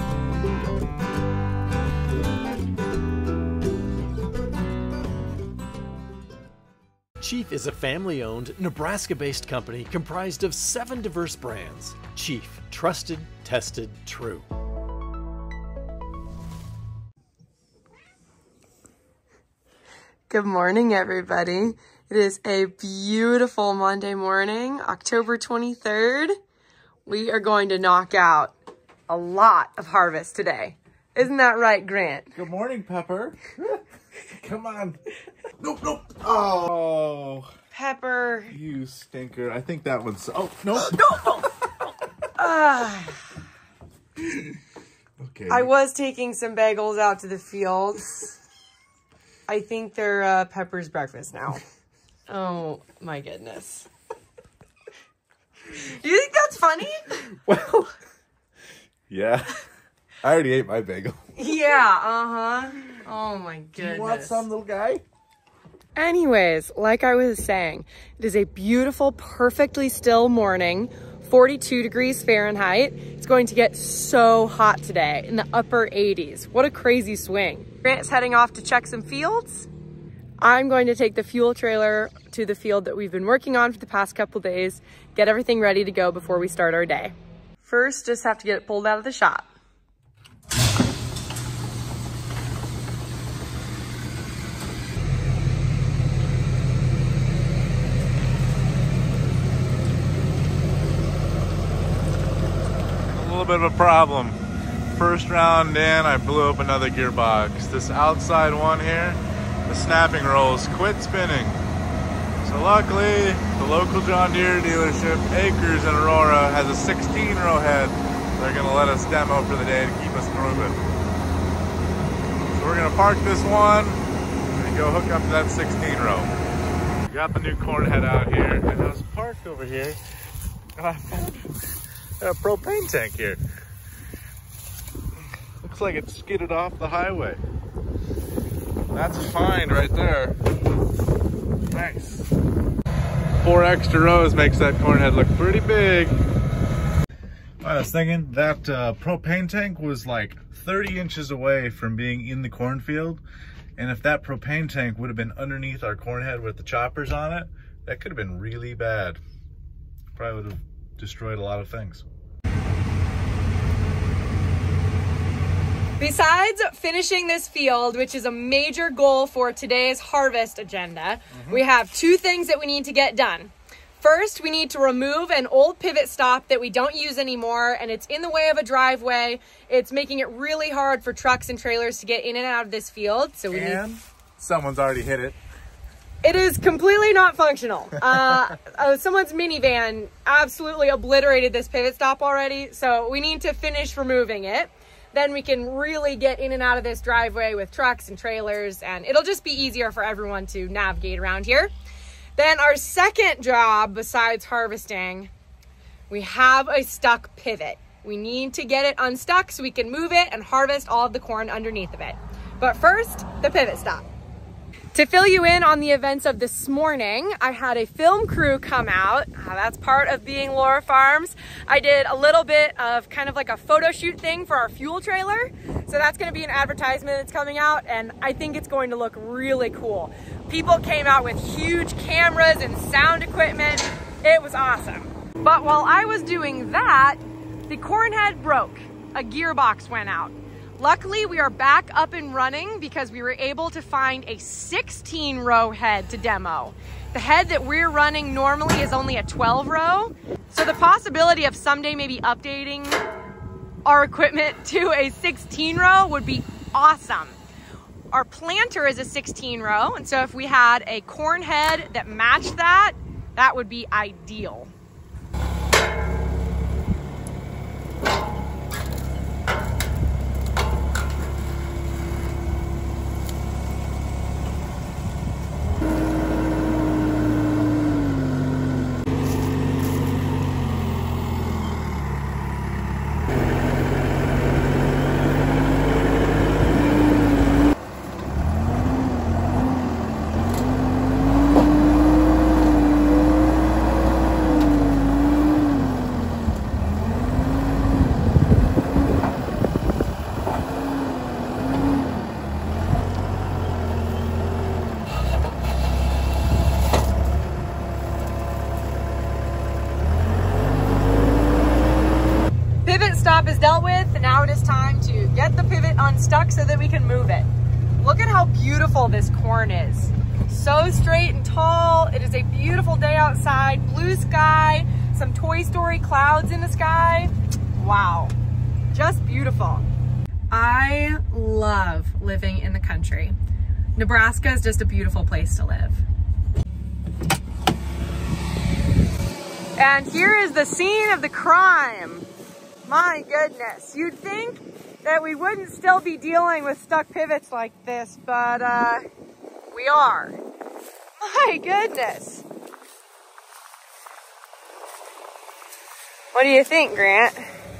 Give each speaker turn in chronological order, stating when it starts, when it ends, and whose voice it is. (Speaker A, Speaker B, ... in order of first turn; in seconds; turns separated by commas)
Speaker A: 7.2-14.4, Speaker B: 20.3-26.3, Speaker B: 27.1-28.5, Speaker B: 29.1-32.3, Speaker C: 32.3-35.0, Speaker C: 35.6-37.5, Speaker B: 37.7-38.5, Speaker C: 38.5-41.1, Speaker B: 41.0-41.5, Speaker B: 42.4-43.2, Speaker C: 45.2-45.7, Speaker B: 45.5-48.4, Speaker B: 49.5-51.6, Speaker B: 52.3-53.9, Speaker B: 55.7-57.2, Speaker C: 57.4-57.9, Speaker C: 59.1-59.6, Speaker C: 60.2-61.2, Speaker B: 61.4-64.5, Speaker C: 63.8-65.0, Speaker B: 66.0-79.7, Speaker B: 80.4-89.5, Speaker C: 103.1-104.4, Speaker C: 104.9-111.6, Speaker C: 112.4-120.8, Speaker C: 122.5-124.0, Speaker C: 124.6-126.3, Speaker C: 127.0-130.0, Speaker C: 130.8-131.5, Speaker C: 132.2-133.4, Speaker C: 135.6-137.4, Speaker C: 138.9-140.4, Speaker C: 141.7-142.3, Speaker C: 143.4-146.2, Speaker C: 147.6-153.2, Speaker C: 153.8-159.2, Speaker C: 160.1-162.0, Speaker B: 166.0-183.8, Speaker C: 171.3-171.6, Speaker C: 183.5-185.4, Speaker B: 186.2-201.7, Speaker B: 202.4-205.3, Speaker B: 206.1-214.1, Speaker B: 214.9-253.0, Speaker B: 253.8-257.4, Speaker B: 258.1-264.7, Speaker B: 312.8-317.5, Speaker B: 318.0-328.4, Speaker B: 328.9-329.9, Speaker B: 330.5-333.3, Speaker B: 333.9-336.0, Speaker B: 339.8-342.3, Speaker B: 342.9-349.0, Speaker B: 349.7-350.4, Speaker B: 351.2-352.4, Speaker B: 356.3-357.4